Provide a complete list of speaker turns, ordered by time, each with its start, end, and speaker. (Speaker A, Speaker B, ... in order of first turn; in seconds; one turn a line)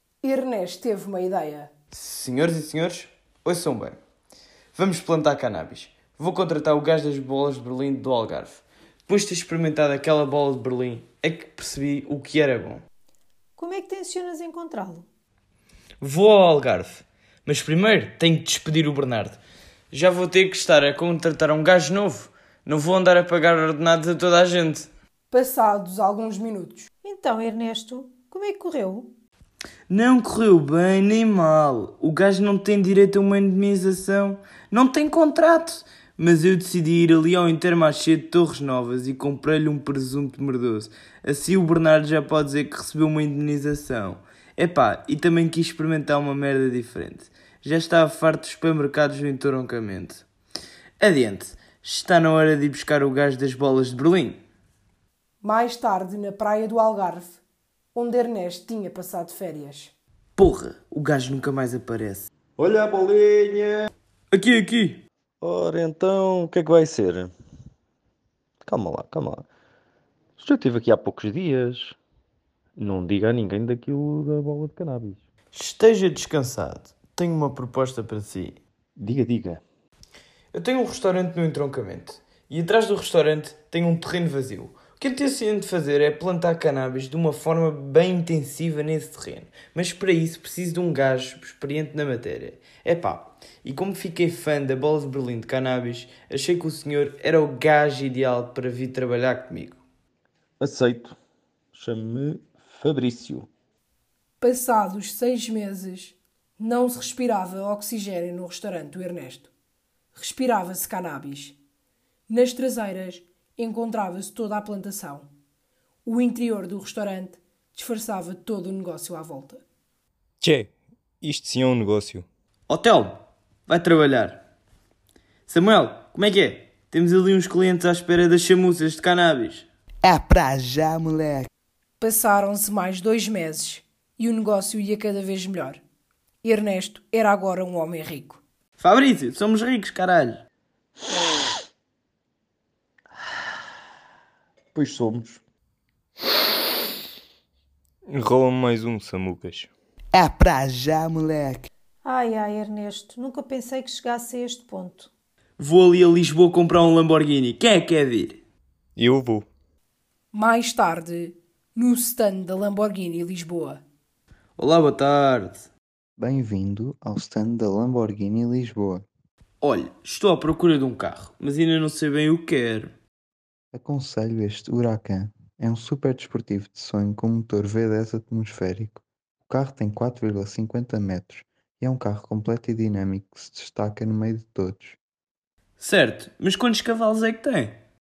Speaker A: 0.2-1.7
Speaker B: 1.9-4.0
Speaker B: 4.8-12.8
Speaker C: 13.6-15.1
Speaker B: 16.0-19.4
Speaker B: 19.9-24.9
Speaker A: 25.3-26.9
Speaker C: 27.0-29.1
Speaker B: 29.9-50.2
Speaker B: 51.0-54.4
Speaker A: 55.4-57.4
Speaker A: 57.9-59.9
Speaker B: 60.4-62.3
Speaker D: 62.6-63.9
Speaker B: 64.3-65.0
Speaker D: 65.4-67.3
Speaker D: 68.6-69.5
Speaker D: 70.4-72.0
Speaker D: 72.8-75.2
Speaker B: 75.5-78.6
Speaker D: 79.0-79.6
Speaker B: 80.5-99.8
Speaker D: 100.6-101.2
Speaker D: 101.7-103.5
Speaker A: 104.4-109.5
Speaker A: 110.1-111.6
Speaker A: 112.3-115.3
Speaker A: 116.0-119.6
Speaker E: 120.4-122.3
Speaker B: 122.7-124.4
Speaker B: 125.5-129.7
Speaker F: 130.0-131.5
Speaker A: 132.0-135.8
Speaker A: 136.4-138.4
Speaker B: 138.8-140.4
Speaker D: 144.8-145.4
Speaker E: 148.1-149.7
Speaker F: 150.1-151.7
Speaker C: 152.0-155.1
Speaker B: 155.6-158.4
Speaker E: 159.0-159.5
Speaker A: 160.3-163.8
Speaker B: 164.6-165.7
Speaker G: 166.2-169.1
Speaker B: 169.6-172.9
Speaker G: 173.7-185.0
Speaker B: 185.8-187.8